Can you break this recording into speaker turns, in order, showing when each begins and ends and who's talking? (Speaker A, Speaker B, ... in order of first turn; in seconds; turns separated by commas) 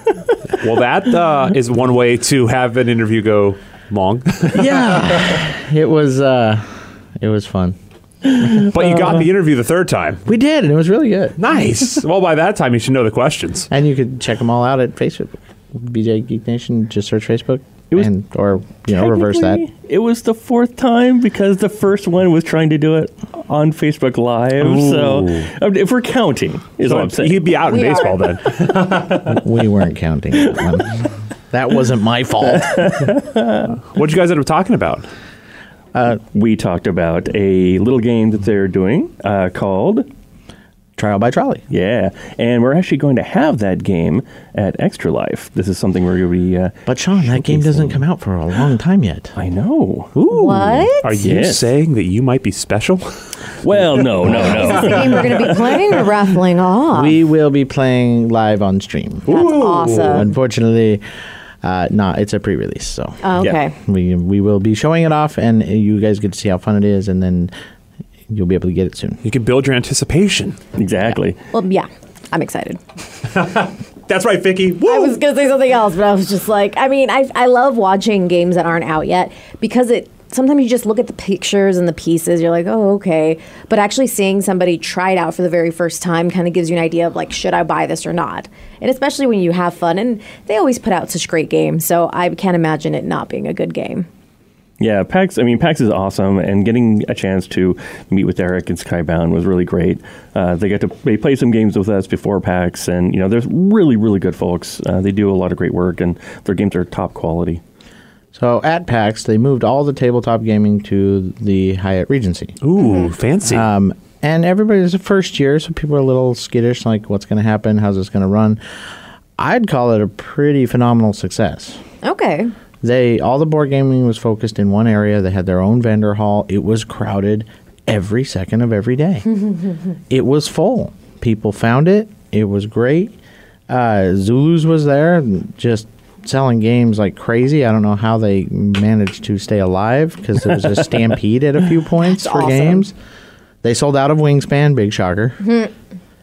Speaker A: 0.6-4.9, Speaker B: 4.5-7.8, Speaker B: 8.4-8.7, Speaker A: 8.6-10.2, Speaker B: 10.3-11.4, Speaker A: 11.4-13.7, Speaker B: 13.7-19.6, Speaker C: 18.9-27.4, Speaker A: 24.6-25.5, Speaker A: 26.8-29.4, Speaker D: 27.7-28.3, Speaker B: 29.3-33.1, Speaker C: 32.6-33.6, Speaker A: 33.8-35.0, Speaker B: 35.9-36.2, Speaker C: 36.3-40.1, Speaker B: 41.0-41.6, Speaker C: 41.7-48.0, Speaker B: 46.9-49.4, Speaker C: 49.4-50.1, Speaker B: 50.1-50.9, Speaker D: 50.3-51.1, Speaker A: 51.0-53.1, Speaker C: 51.2-51.7, Speaker C: 53.6-55.7, Speaker A: 54.0-55.9, Speaker B: 54.2-54.9, Speaker D: 54.4-57.2, Speaker B: 56.9-59.3, Speaker A: 59.3-60.3, Speaker D: 59.3-60.3, Speaker B: 60.0-61.0, Speaker B: 61.6-63.2, Speaker D: 63.2-63.8, Speaker B: 63.7-67.5, Speaker B: 68.3-69.2, Speaker A: 69.2-70.6, Speaker C: 70.8-71.4, Speaker D: 71.5-72.8, Speaker A: 73.3-75.2, Speaker D: 74.8-94.1, Speaker C: 94.8-107.6, Speaker B: 108.3-112.6, Speaker A: 112.6-113.7, Speaker D: 112.8-113.0, Speaker B: 113.5-118.6, Speaker B: 119.4-121.8, Speaker D: 122.0-122.5, Speaker B: 122.8-129.3, Speaker B: 130.1-133.2, Speaker B: 133.7-142.9, Speaker D: 142.0-142.9, Speaker B: 143.6-145.4, Speaker D: 145.4-145.7